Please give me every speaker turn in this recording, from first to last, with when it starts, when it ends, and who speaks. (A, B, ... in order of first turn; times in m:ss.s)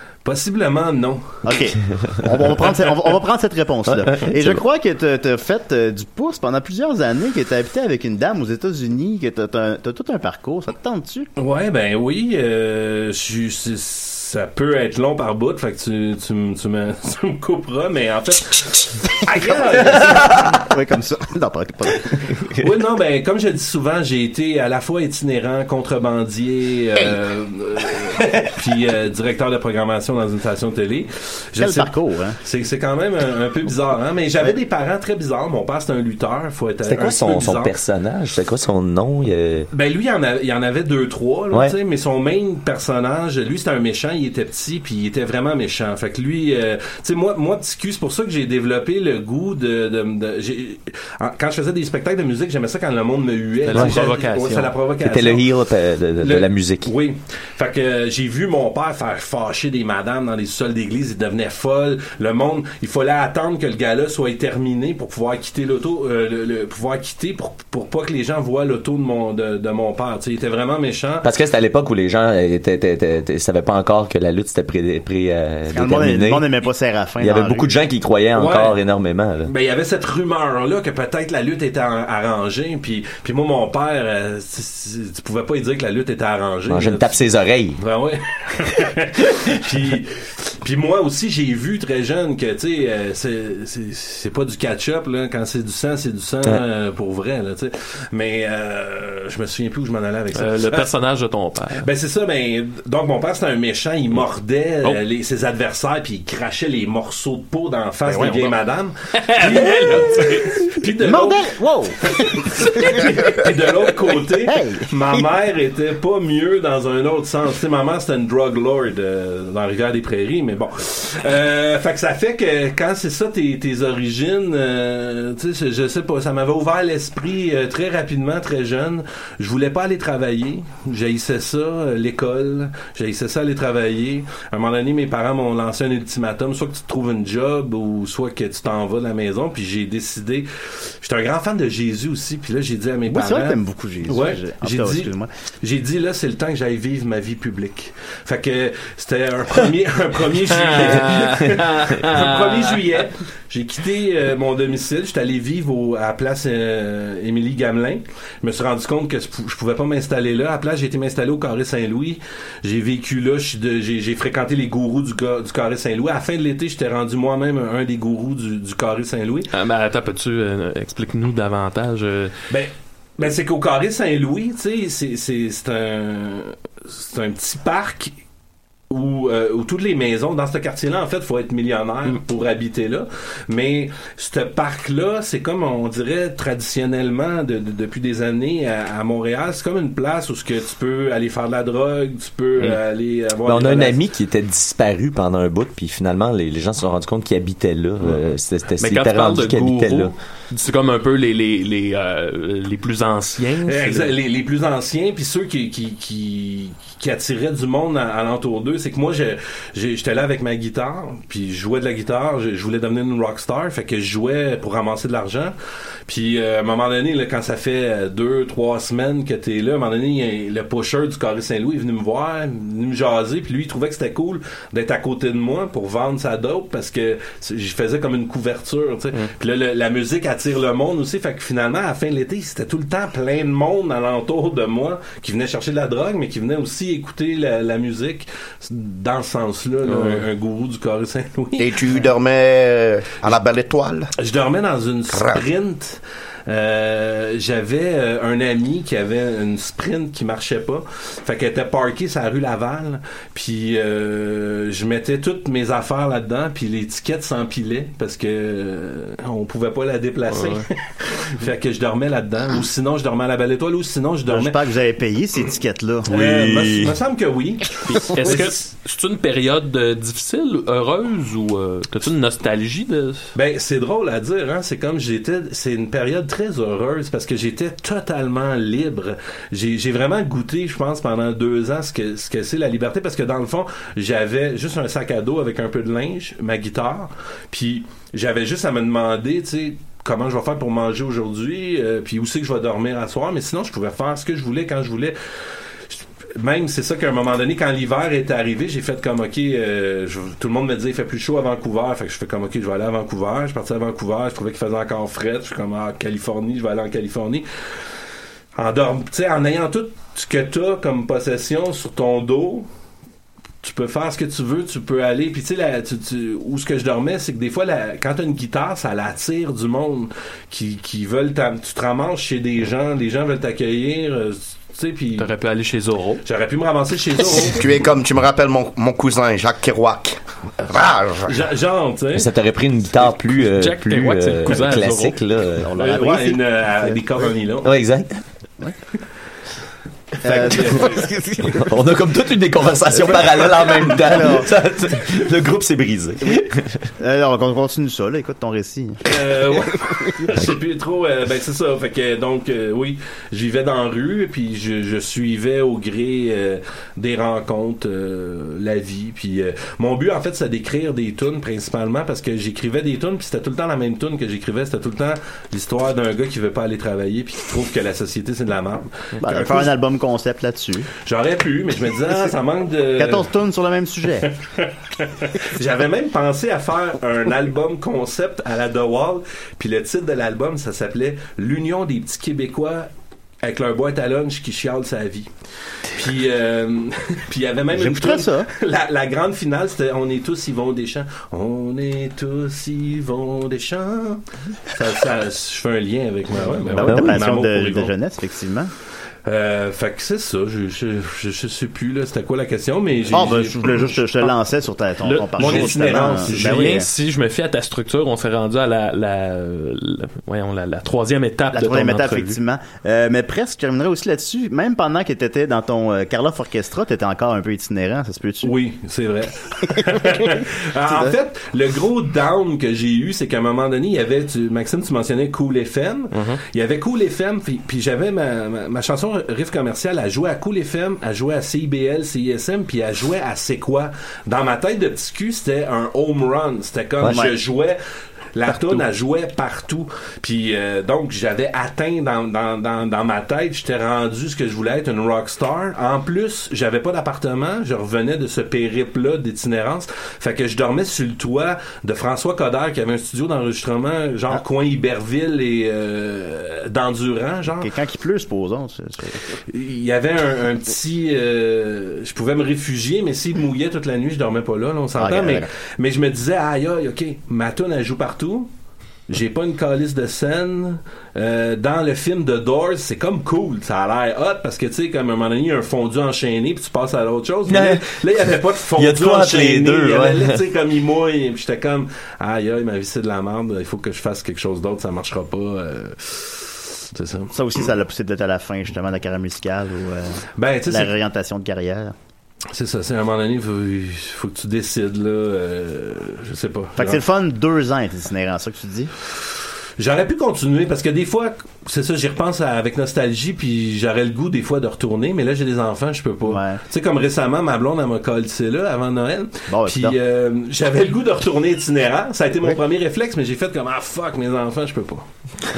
0:00.2-0:01.5 A
0:01.4-0:11.3 B
0:04.0-0:04.5 C
0:11.4-0:20.6 A
0:19.4-0:22.3 B
0:22.6-0:37.7 A
0:31.6-0:32.4 B
0:36.8-0:39.7 C
0:39.7-0:55.5 A
0:53.7-0:54.7 D
0:53.7-0:54.0 C
0:55.0-0:56.9 C
0:56.2-1:11.3 A
1:11.2-1:16.5 C
1:15.7-1:17.7 B
1:17.2-1:19.5 C
1:18.3-1:18.8 A
1:19.4-1:27.2 A
1:26.7-1:27.8 C
1:27.8-1:40.9 A
1:40.3-1:41.8 D
1:41.8-1:51.5 A
1:48.1-1:48.5 D
1:49.1-1:50.7 D
1:51.0-1:52.5 B
1:52.1-2:49.5 A
1:54.4-1:55.2 B
2:23.1-2:25.3 B
2:30.5-2:32.7 D
2:49.5-2:52.3 D
2:52.5-2:58.1 A
2:58.9-3:14.0 A
3:13.4-3:20.1 C
3:18.0-3:18.2 A
3:18.8-3:24.1 D
3:23.6-3:35.5 A
3:36.1-4:01.8 A
3:59.9-4:00.2 D
4:01.6-4:04.1 E
4:04.2-4:24.6 A
4:05.1-4:05.4 E
4:20.3-4:20.6 D
4:24.3-4:26.1 B
4:26.1-4:26.9 C
4:26.1-4:28.6 A
4:27.9-4:33.2 D
4:33.3-4:55.1 A
4:55.9-5:07.4 A
5:08.5-5:12.7 A
5:13.6-5:25.3 A
5:25.2-5:26.2 D
5:26.2-5:27.6 A
5:27.4-5:31.3 E
5:31.3-5:32.3 A
5:32.1-5:35.7 C
5:33.4-5:35.2 D
5:35.6-5:37.0 B
5:35.8-5:37.7 A
5:37.6-5:38.2 C
5:40.2-5:41.1 A
5:40.2-5:41.7 B
5:41.5-5:46.8 C
5:43.1-5:44.5 B
5:47.0-5:49.1 B
5:49.0-6:09.7 A
6:09.2-6:10.9 B
6:11.0-6:13.3 A
6:13.0-6:14.3 B
6:14.2-6:22.9 A
6:23.4-6:25.3 A
6:25.9-6:37.9 A
6:27.7-6:28.5 B
6:36.6-6:38.7 B
6:36.8-6:37.2 C
6:39.2-6:43.9 A
6:43.1-6:46.9 B
6:45.0-6:52.4 D
6:45.4-6:46.8 A
6:51.5-6:58.5 B
6:58.4-7:17.8 A
7:00.9-7:01.1 B
7:17.0-7:17.4 B
7:18.3-7:37.7 A
7:37.5-7:39.2 B
7:39.5-7:48.5 A
7:45.0-7:45.5 B
7:49.1-8:07.3 A
7:57.5-7:58.0 C
7:58.8-8:00.4 C
8:07.3-8:11.9 B
8:10.4-8:10.9 A
8:12.5-8:17.0 A
8:16.8-8:18.9 B
8:19.8-8:35.0 A
8:26.2-8:26.6 B
8:29.5-8:30.0 B